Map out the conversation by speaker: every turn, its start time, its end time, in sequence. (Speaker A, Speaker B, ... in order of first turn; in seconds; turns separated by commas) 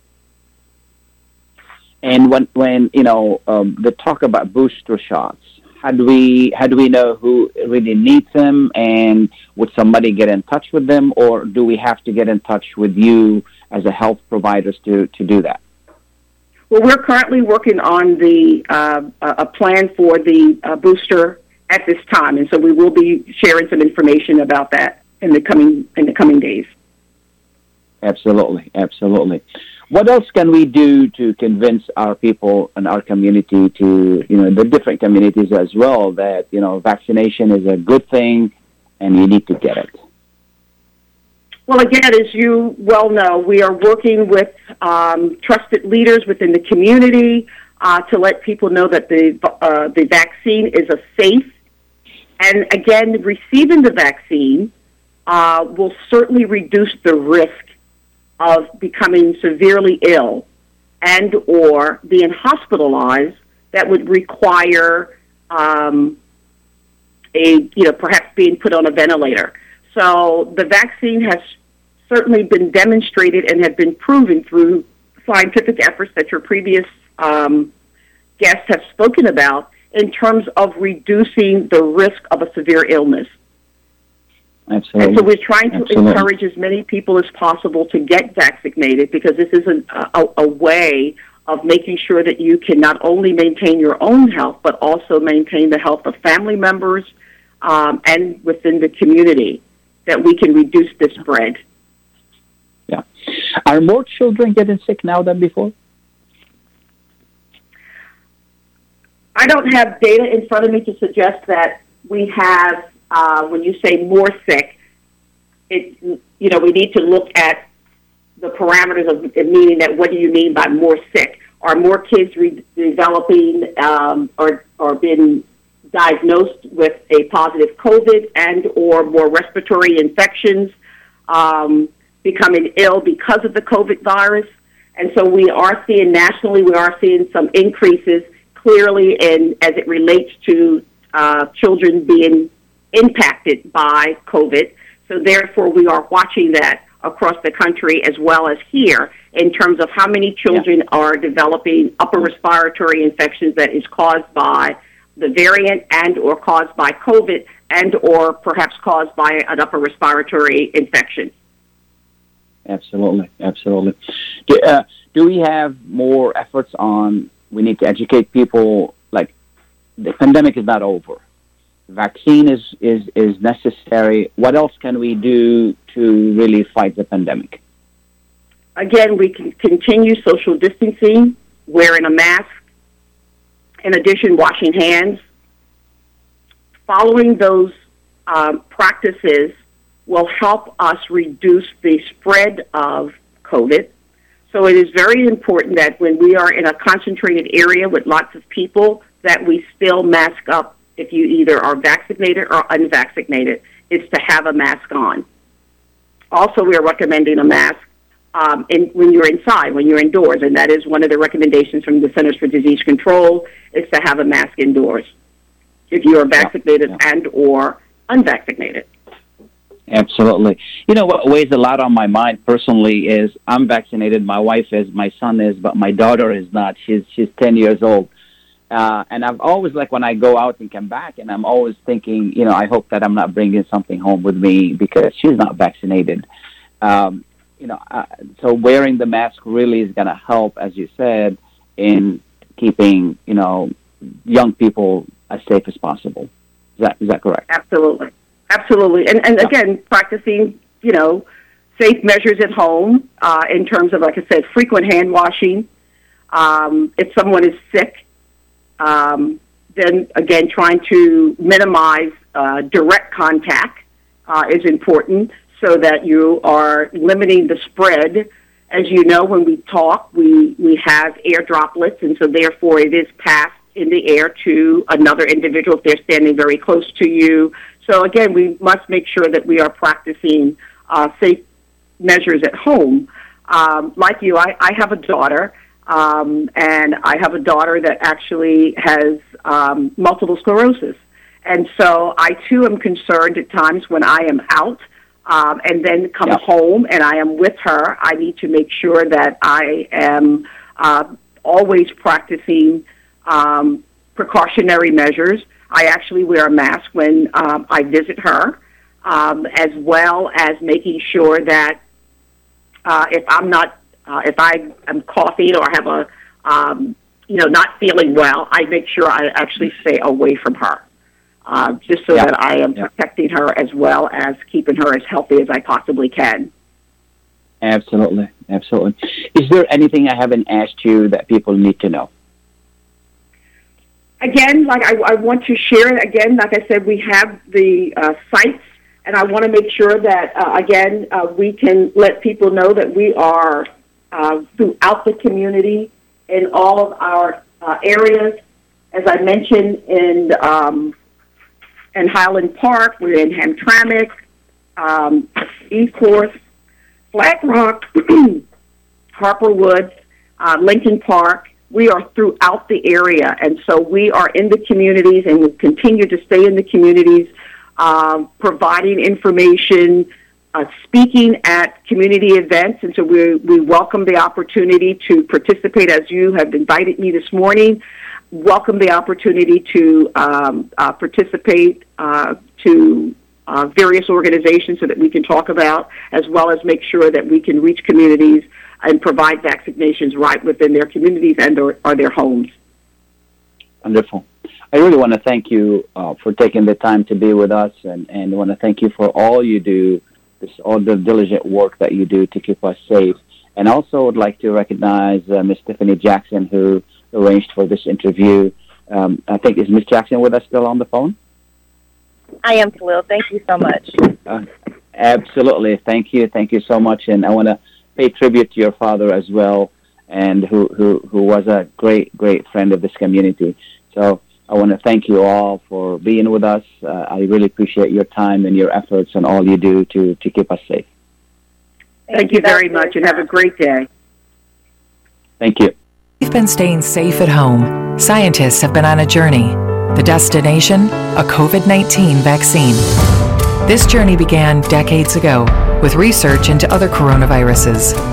Speaker A: 2.0-15.6, Speaker B: 16.7-26.7, Speaker A: 28.0-39.9, Speaker B: 41.7-51.5, Speaker B: 52.4-54.7, Speaker B: 55.3-57.7, Speaker B: 58.4-60.5, Speaker B: 61.0-66.2, Speaker B: 67.3-71.4, Speaker B: 72.1-77.7, Speaker B: 78.4-83.3, Speaker A: 84.7-86.2, Speaker B: 85.0-97.1, Speaker B: 97.6-101.6, Speaker A: 103.7-105.7, Speaker B: 109.3-114.8, Speaker B: 115.7-117.7, Speaker B: 118.4-130.7, Speaker B: 131.3-161.3, Speaker A: 162.7-163.9, Speaker A: 164.5-169.3, Speaker A: 170.0-171.2, Speaker A: 171.9-177.6, Speaker B: 178.8-182.5, Speaker B: 183.8-185.2, Speaker B: 186.9-187.7, Speaker B: 188.3-189.5, Speaker B: 190.1-193.9, Speaker B: 194.5-205.2, Speaker B: 206.3-207.8, Speaker B: 208.3-215.1, Speaker B: 215.9-218.9, Speaker A: 219.9-228.1, Speaker A: 228.7-236.2, Speaker A: 236.8-243.7, Speaker A: 244.3-246.3, Speaker A: 246.8-247.4, Speaker B: 247.5-251.3, Speaker B: 251.8-255.7, Speaker B: 256.3-258.0, Speaker B: 258.8-281.4, Speaker B: 282.0-311.8, Speaker B: 312.9-320.8, Speaker B: 321.4-326.5, Speaker A: 327.6-332.1, Speaker B: 334.2-348.4, Speaker B: 348.9-350.9, Speaker B: 351.9-354.1, Speaker B: 354.8-356.3, Speaker B: 357.1-358.4, Speaker B: 359.1-377.8, Speaker B: 378.3-392.5, Speaker A: 393.8-411.1, Speaker C: 412.4-414.0, Speaker A: 414.2-430.9, Speaker C: 432.1-433.1, Speaker B: 432.1-433.9, Speaker A: 435.4-435.7, Speaker D: 436.2-442.9, Speaker D: 443.6-448.0